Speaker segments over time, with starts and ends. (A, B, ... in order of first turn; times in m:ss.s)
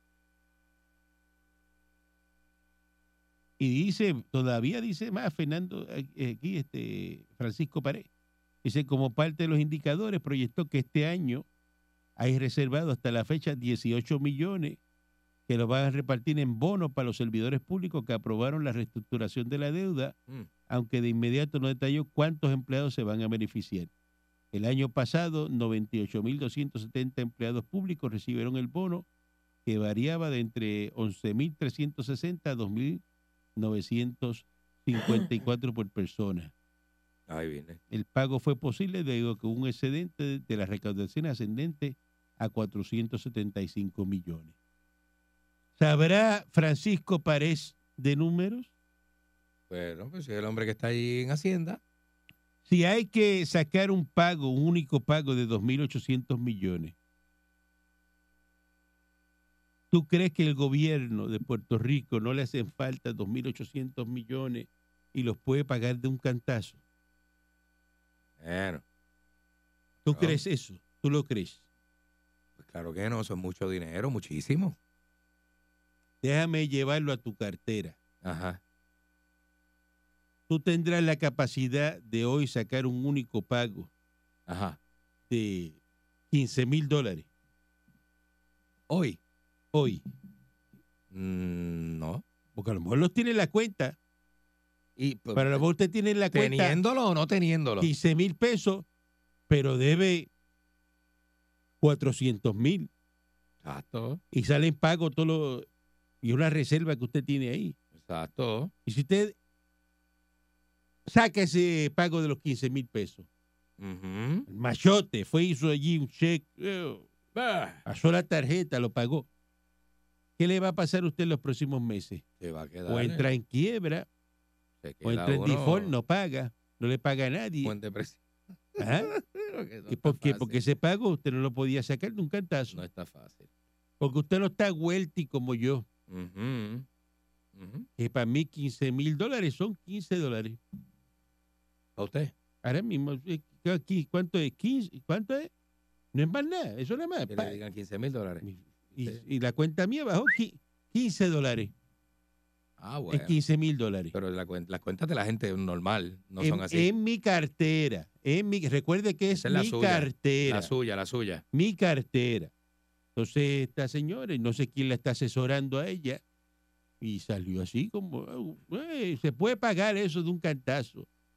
0:03.6-0:08.1 A
0:08.6-0:11.4 A
0:12.2-0:14.8 A
0:15.5-0:20.1 A
0:20.7-0:23.9 A
0:24.5-0:29.0 A
0:29.6-0:33.0 A
0:33.6-0:36.5 A
0:37.3-0:37.8 B
0:37.9-0:44.5 A
0:45.8-0:48.7 A
0:49.7-0:51.8 B
0:52.6-0:56.9 A
0:59.9-1:06.8 A
1:08.4-1:08.8 B
1:10.0-1:11.6 A
1:10.1-1:10.4 B
1:12.6-1:14.7 B
1:16.2-1:18.0 A
1:18.2-1:18.6 B
1:20.5-1:23.9 A
1:24.5-1:24.8 B
1:25.3-1:25.8 A
1:26.3-1:27.2 A
1:28.9-1:29.2 B
1:29.7-1:30.0 A
1:31.1-1:32.2 B
1:32.5-1:34.0 A
1:35.0-1:35.6 B
1:35.3-1:36.8 A
1:36.3-1:37.9 B
1:37.8-1:38.8 A
1:39.5-1:40.3 A
1:41.8-1:42.9 A
1:43.6-1:44.2 B
1:44.3-1:45.6 A
1:46.2-1:47.7 A
1:48.0-1:48.7 B
1:48.8-1:49.3 A
1:51.0-1:53.2 A
1:53.8-1:54.5 B
1:54.5-1:57.1 A
1:57.3-1:57.8 B
1:57.8-1:59.3 A
2:00.4-2:02.2 A
2:02.4-2:03.3 B
2:02.9-2:04.1 A
2:04.8-2:05.9 B
2:05.0-2:07.7 A
2:07.6-2:08.2 B
2:08.7-2:10.6 B
2:08.8-2:09.1 A
2:09.9-2:12.8 A
2:12.7-2:13.5 B
2:14.0-2:15.8 A
2:16.1-2:16.8 B
2:17.5-2:17.9 B
2:18.0-2:20.6 A
2:22.0-2:22.3 B
2:22.6-2:25.5 A
2:26.1-2:27.6 A
2:27.3-2:28.4 B
2:28.4-2:31.7 A
2:32.8-2:33.4 B
2:33.1-2:34.1 A
2:34.1-2:36.9 B
2:36.4-2:40.7 A
2:39.4-2:41.4 B
2:41.5-2:42.5 A
2:43.2-2:46.2 A
2:47.0-2:51.1 A